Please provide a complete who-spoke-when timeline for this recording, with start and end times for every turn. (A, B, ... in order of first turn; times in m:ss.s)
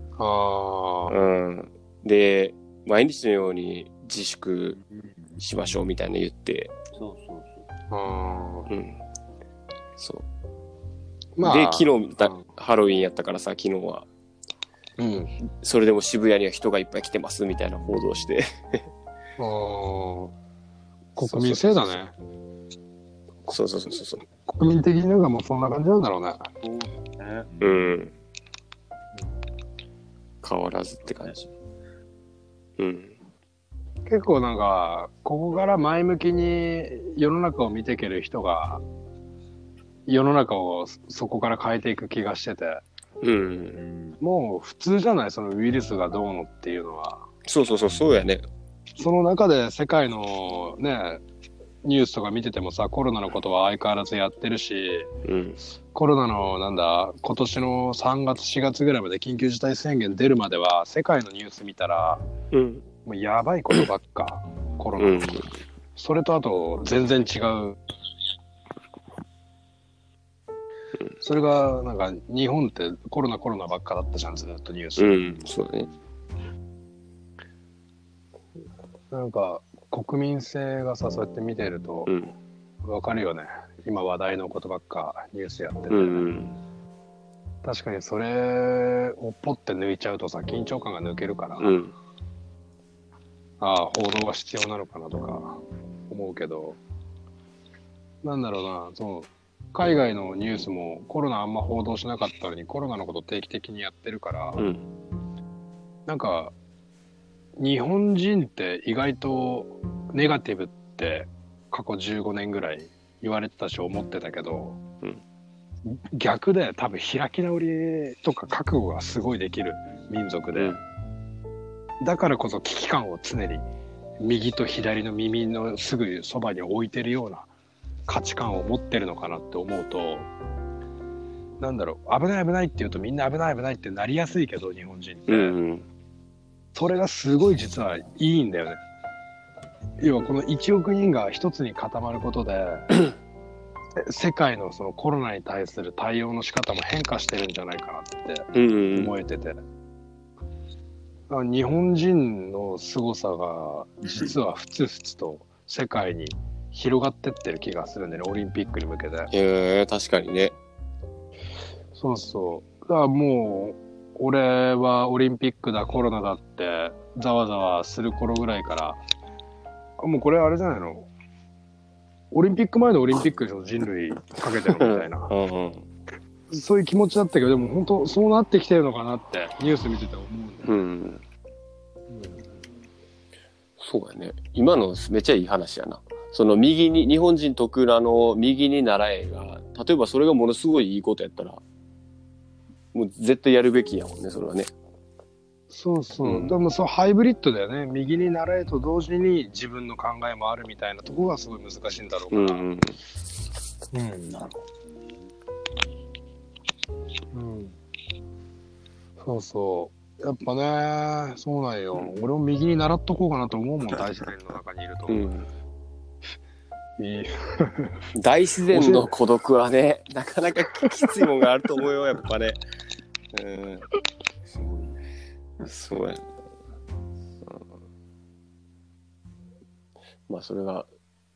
0:00.2-0:01.2 A
0:01.1-0:04.8 B
0:04.7-0:05.4 C
0:05.4-0:06.7 B
0:06.9-0:07.6 C
0:07.9-0:08.7 A
0:08.7-0:09.0 B
0:10.0-0:10.2 B
0:11.4-0:12.4 A
0:11.4-0:14.1 B
0:15.0-0:15.3 A
0:15.5-0:18.8 B
0:19.4-0:20.3 A
0:21.2-0:22.1 A
0:21.2-0:22.0 B
0:23.5-0:24.2 B
0:24.4-0:26.5 A
0:26.6-0:28.1 C
0:27.6-0:28.1 B
0:30.4-0:31.4 B
0:31.1-0:31.5 C
0:32.8-0:33.1 B
0:34.0-0:38.8 A
0:40.1-0:42.8 A
0:43.2-0:43.8 B
0:43.7-0:44.2 C
0:44.2-0:47.3 A
0:47.4-0:48.4 B
0:49.0-0:51.2 A
0:51.8-0:55.1 A
0:55.2-0:55.6 B
0:55.9-1:02.2 A
1:02.5-1:02.8 B
1:03.0-1:05.3 A
1:05.0-1:05.5 B
1:06.0-1:07.8 A
1:11.2-1:15.4 A
1:15.0-1:15.9 B
1:19.1-1:22.2 A
1:22.0-1:22.3 B
1:22.8-1:26.3 A
1:25.9-1:26.6 B
1:27.6-1:31.7 A
1:31.6-1:31.9 B
1:33.6-1:36.8 A
1:38.2-1:44.7 A
1:44.6-1:44.8 B
1:46.0-1:46.5 A
1:47.6-1:54.8 A
1:55.8-2:00.8 A
2:00.5-2:00.8 B
2:02.0-2:03.6 A
2:04.2-2:07.5 A
2:08.0-2:10.3 A
2:11.6-2:15.6 A
2:15.3-2:15.8 B
2:16.7-2:18.8 A
2:20.0-2:23.0 A
2:24.0-2:29.6 A
2:28.5-2:29.2 B
2:31.3-2:39.3 A
2:39.3-2:40.5 B
2:41.9-2:49.0 A
2:50.0-2:51.1 A
2:52.3-2:55.3 A
2:54.7-2:55.8 B
2:56.5-3:00.7 A
3:00.6-3:01.2 B
3:02.1-3:02.4 A
3:03.8-3:11.6 B
3:12.9-3:14.7 B
3:15.7-3:22.6 A
3:16.2-3:16.6 B
3:22.3-3:23.0 B
3:23.9-3:24.4 A
3:24.3-3:24.7 C
3:27.3-3:27.8 A
3:29.2-3:35.3 A
3:35.1-3:35.5 B
3:37.0-3:38.0 A
3:38.1-3:42.6 B
3:38.7-3:39.1 A
3:43.3-3:43.9 B
3:44.5-3:45.0 C
3:45.6-3:46.2 B
3:50.3-3:50.9 B